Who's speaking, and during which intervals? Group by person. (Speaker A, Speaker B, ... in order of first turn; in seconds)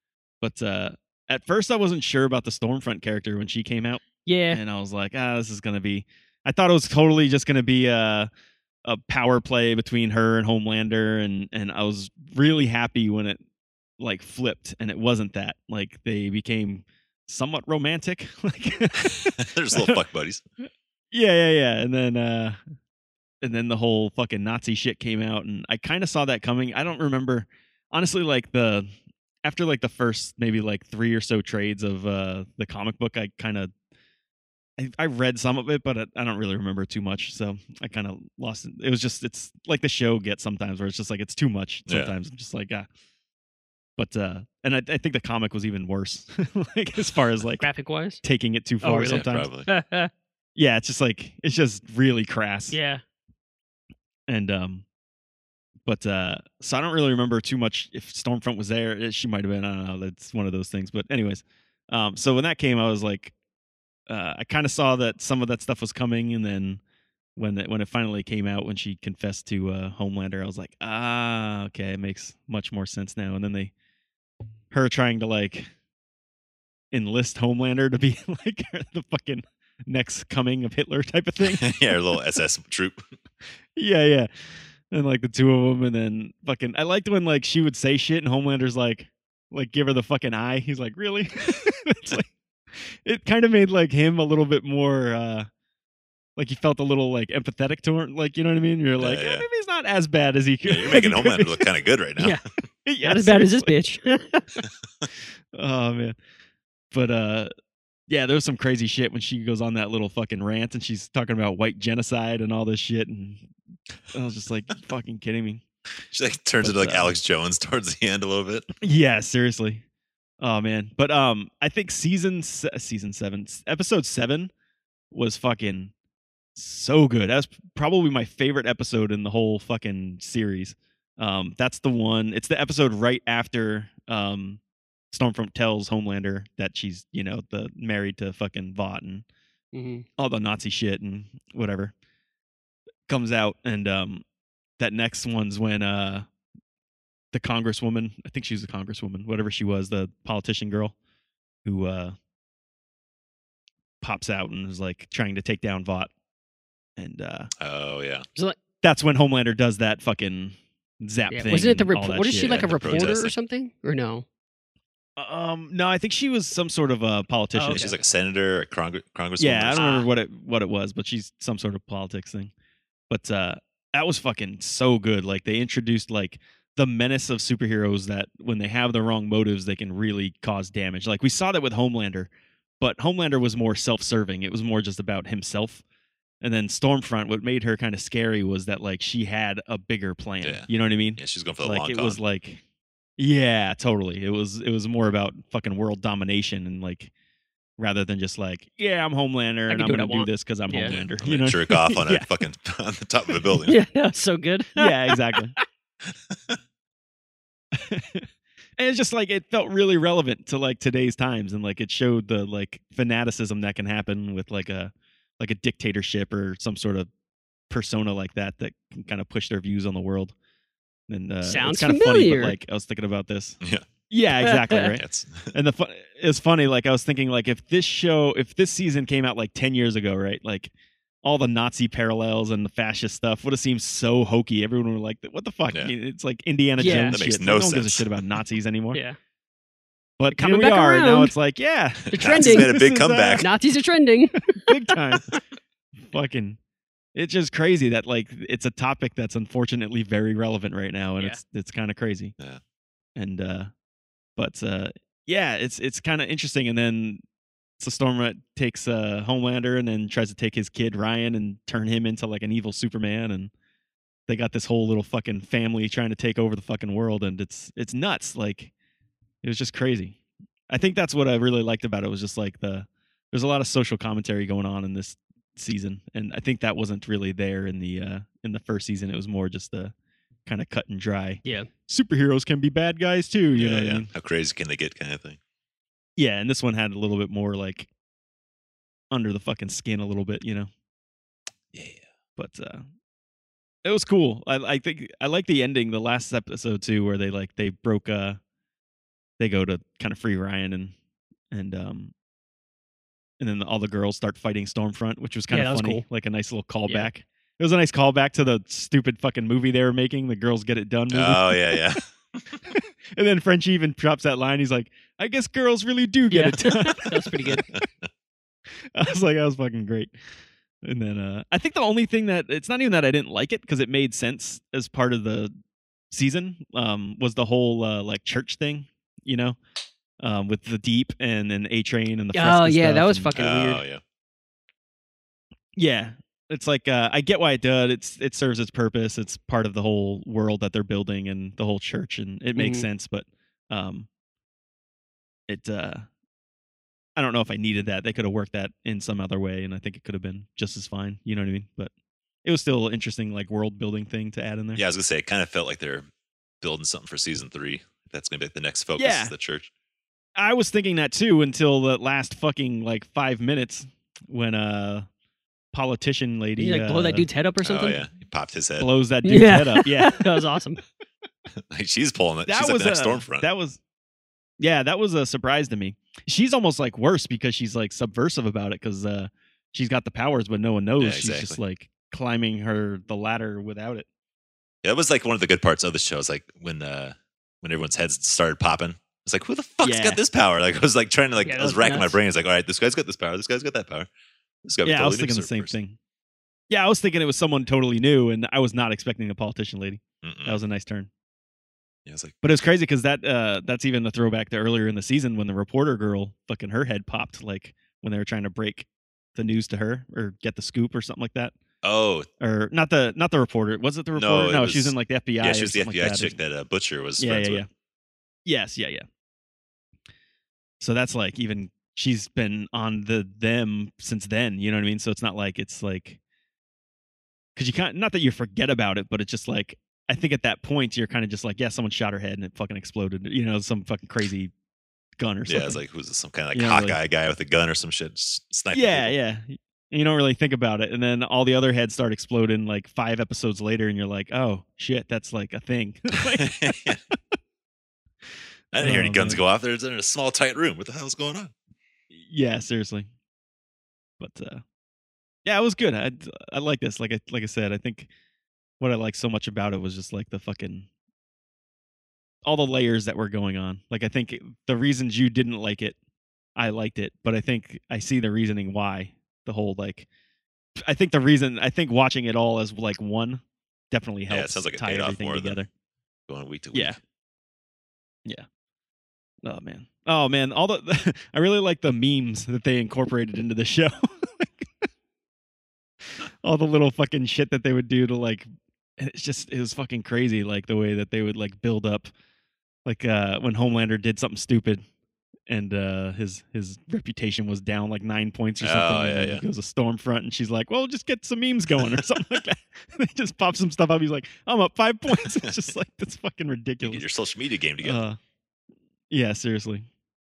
Speaker A: 0.4-8.3, 8.8-13.4, 14.0-20.0, 21.1-22.6, 23.4-28.9, 29.4-33.7, 34.8-42.9, 44.0-47.6, 48.2-49.5, 50.5-52.8, 54.3-54.8, 55.9-63.3, 64.1-66.8, 67.3-73.7, 74.7-75.7, 76.9-81.8, 83.8-84.3, 84.9-95.5, 96.3-101.7, 102.8-103.7, 105.5-106.2, 106.9-107.5, 108.1-113.5, 114.1-115.6, 116.6-117.2, 118.8-119.8, 120.4-124.5, 125.1-125.9, 126.5-134.6, 135.1-139.2, 140.2-141.9, 143.1-144.2, 144.8-146.3, 147.3-150.9, 151.6-152.2, 154.0-156.1, 157.0-157.5, 158.8-163.1, 165.2-167.9, 169.4-172.5, 173.1-185.8, 186.4-192.6, 193.2-197.1, 197.8-202.0, 204.8-205.6, 207.7-217.1, 217.7-220.3, 221.1-223.6, 224.1-230.7, 231.2-239.0, 240.2-243.5, 244.5-245.2, 246.0-246.6, 247.1-252.3, 253.2-253.7, 254.3-257.2, 257.8-263.5, 264.3-268.7, 269.4-270.1, 270.7-279.9, 280.4-284.1, 286.2-287.9, 289.1-290.7, 292.4-292.8, 293.8-298.4, 299.4-300.9, 301.5-302.1, 303.4-311.9, 312.7-317.6, 318.9-320.1, 320.8-325.5, 326.1-329.6, 330.2-333.3, 335.8-344.1, 345.5-346.1, 347.1-351.9, 352.4-354.8, 359.0-359.3, 360.4-365.1, 365.7-367.3, 368.8-370.4, 372.4-373.8, 374.6-384.1, 389.8-390.2, 394.8-396.0, 396.7-401.1, 402.4-411.5, 412.4-416.4, 417.2-417.7, 418.4-419.0, 420.8-426.2, 427.6-434.5, 435.2-435.8, 436.5-437.0, 438.7-446.8, 448.8-449.4, 452.1-453.1, 454.2-454.6, 455.4-458.1, 458.8-460.9, 462.4-465.9, 466.6-470.1, 470.8-475.7, 476.7-477.0, 479.4-484.7, 486.4-488.4, 489.0-492.1, 492.8-494.8, 495.5-507.0, 507.8-508.2, 509.1-509.9
Speaker B: 4.2-4.6, 47.6-48.2, 48.8-50.1, 52.7-53.0, 103.0-104.5, 139.7-140.1, 161.3-164.2, 167.5-167.9, 169.7-170.1, 199.7-200.9, 203.7-205.6, 221.4-222.6, 224.4-224.8, 236.8-237.2, 240.3-241.3, 242.1-242.8, 243.4-245.4, 305.5-306.0, 316.3-317.6, 332.3-333.8, 342.6-342.8, 366.6-368.0, 369.2-370.8, 391.4-392.2
Speaker C: 19.2-20.4, 41.9-42.1, 49.0-49.7, 81.4-83.0, 99.0-99.5, 100.7-102.4, 116.1-118.7, 157.6-158.2, 162.4-163.3, 167.7-169.9, 190.4-192.2, 200.8-203.8, 206.1-206.6, 224.9-225.5, 236.8-238.2, 242.1-243.5, 283.5-285.4, 291.7-292.0, 311.1-312.0, 317.4-317.9, 333.3-334.0, 354.8-356.1, 356.6-359.7, 367.6-368.9, 371.6-373.5, 381.0-381.6, 384.8-394.1, 394.6-395.7, 400.2-400.6, 402.1-402.3, 411.8-412.3, 414.1-417.6, 435.5-439.1, 446.3-447.0, 448.7-451.5, 474.3-475.6, 476.3-477.0, 498.6-499.4, 501.8-502.4, 505.2-505.6, 506.8-508.0